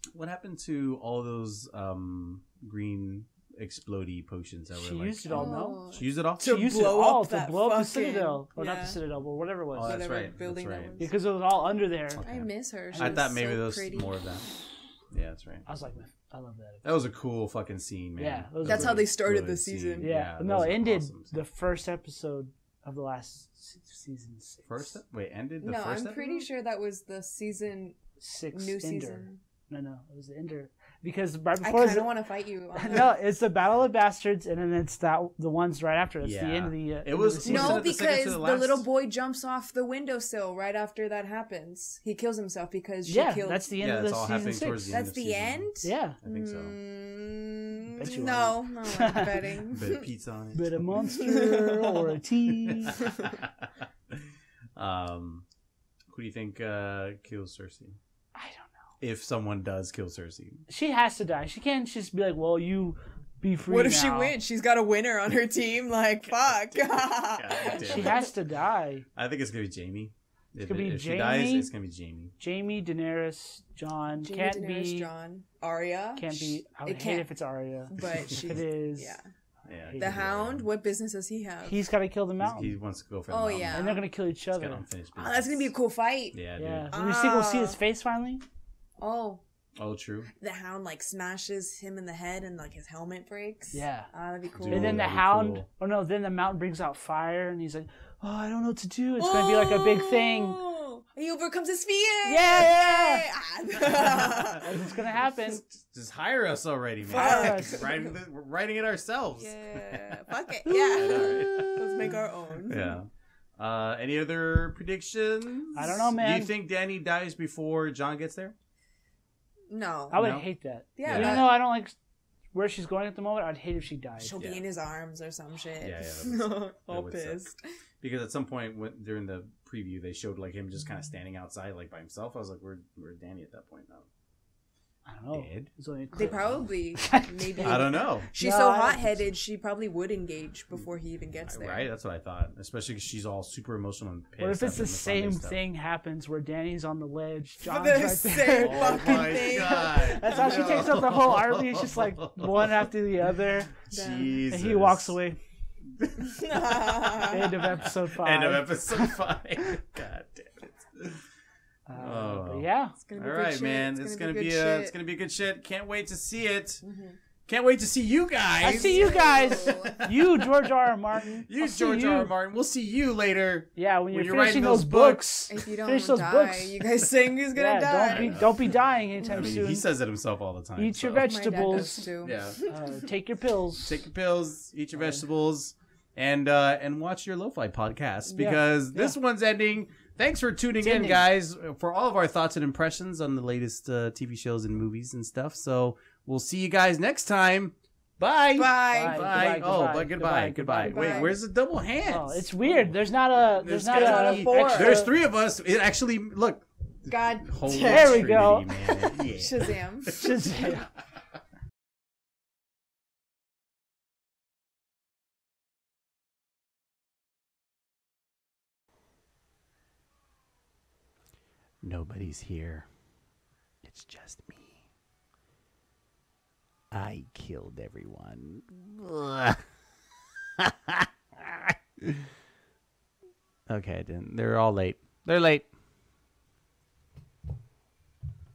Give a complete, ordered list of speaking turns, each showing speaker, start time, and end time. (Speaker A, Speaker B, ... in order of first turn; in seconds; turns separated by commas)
Speaker A: 0.1-6.7, Speaker B: 4.7-5.8, Speaker C: 5.3-9.0, Speaker B: 6.4-10.0, Speaker A: 9.7-10.9, Speaker C: 9.8-11.1, Speaker B: 11.0-12.2, Speaker A: 12.1-14.5, Speaker C: 12.2-14.3, Speaker B: 12.9-13.2, Speaker A: 15.1-15.6, Speaker B: 15.7-17.1, Speaker A: 16.8-21.3, Speaker B: 18.2-19.1, Speaker C: 18.6-20.1, Speaker B: 20.0-25.0, Speaker A: 24.6-26.4, Speaker C: 25.6-28.0, Speaker B: 28.2-32.1, Speaker C: 28.5-29.4, Speaker C: 31.6-33.1, Speaker B: 32.8-37.9, Speaker A: 36.2-38.8, Speaker C: 37.4-43.6, Speaker B: 43.0-45.0, Speaker A: 43.8-45.7, Speaker C: 44.9-50.0, Speaker B: 45.8-46.2, Speaker A: 46.2-46.7, Speaker B: 47.9-49.4, Speaker A: 49.7-51.1, Speaker B: 50.5-53.0, Speaker C: 51.2-52.1, Speaker A: 52.6-53.5, Speaker A: 54.1-55.4, Speaker A: 56.1-58.0, Speaker B: 58.3-58.8, Speaker A: 59.0-60.6, Speaker B: 60.7-64.3, Speaker C: 63.7-68.3, Speaker A: 66.3-68.2, Speaker B: 67.8-69.0, Speaker A: 69.2-72.3, Speaker B: 70.6-71.7, Speaker B: 72.4-75.1, Speaker C: 74.1-77.3, Speaker B: 76.2-79.2, Speaker C: 77.9-79.3, Speaker A: 79.7-80.7, Speaker B: 79.9-80.2, Speaker C: 80.0-81.8, Speaker B: 81.6-82.8, Speaker A: 82.4-83.8, Speaker C: 83.3-84.1, Speaker B: 83.7-84.8, Speaker A: 84.5-85.7, Speaker C: 85.1-86.4, Speaker A: 86.3-86.9, Speaker B: 86.6-88.4, Speaker C: 86.9-87.8, Speaker C: 89.0-89.4, Speaker A: 89.8-90.3, Speaker C: 90.4-95.0, Speaker B: 93.7-94.1, Speaker A: 94.5-95.7, Speaker B: 94.7-100.6, Speaker C: 99.2-104.7, Speaker B: 102.2-103.2, Speaker A: 104.3-104.6, Speaker B: 104.5-105.6, Speaker A: 105.4-110.2, Speaker C: 107.1-108.2, Speaker B: 107.1-107.8, Speaker C: 109.4-113.0, Speaker B: 110.6-111.9, Speaker A: 110.9-118.5, Speaker B: 115.7-116.5, Speaker C: 119.7-120.2, Speaker B: 120.1-121.9, Speaker A: 120.1-120.5, Speaker C: 121.0-121.5, Speaker A: 121.0-121.4, Speaker B: 122.5-124.4, Speaker C: 124.2-127.6, Speaker A: 124.4-124.6, Speaker A: 125.8-127.4, Speaker A: 128.0-134.1, Speaker B: 135.1-139.2, Speaker A: 135.3-135.7, Speaker C: 136.1-141.9, Speaker A: 137.6-138.3, Speaker A: 141.4-145.6, Speaker B: 144.4-153.8, Speaker C: 147.6-151.0, Speaker A: 148.6-152.9, Speaker A: 153.9-155.2, Speaker C: 153.9-154.4, Speaker B: 154.5-155.4, Speaker A: 155.8-156.7, Speaker C: 156.2-157.7, Speaker B: 157.3-159.2, Speaker A: 157.8-161.2, Speaker B: 161.9-162.9, Speaker A: 161.9-166.8, Speaker C: 163.0-164.9, Speaker C: 166.8-167.2, Speaker A: 167.5-175.4, Speaker B: 168.6-172.3, Speaker C: 168.6-170.0, Speaker B: 173.8-176.8, Speaker C: 175.5-178.4, Speaker B: 177.5-179.8, Speaker A: 178.0-178.6, Speaker A: 179.2-181.6, Speaker B: 180.8-182.1, Speaker C: 181.1-182.8, Speaker A: 182.2-182.6, Speaker B: 182.7-184.0, Speaker A: 183.8-202.9, Speaker B: 184.9-185.2, Speaker B: 188.3-189.2, Speaker B: 190.8-191.2, Speaker C: 198.5-199.7, Speaker B: 198.9-201.3, Speaker C: 200.8-201.4, Speaker B: 202.0-205.1, Speaker A: 203.6-210.4, Speaker C: 203.6-205.0, Speaker C: 207.1-210.2, Speaker B: 207.7-208.7, Speaker B: 210.1-210.9, Speaker A: 221.8-222.9, Speaker A: 223.8-224.8, Speaker A: 226.9-229.8, Speaker A: 230.6-232.2, Speaker A: 233.7-235.7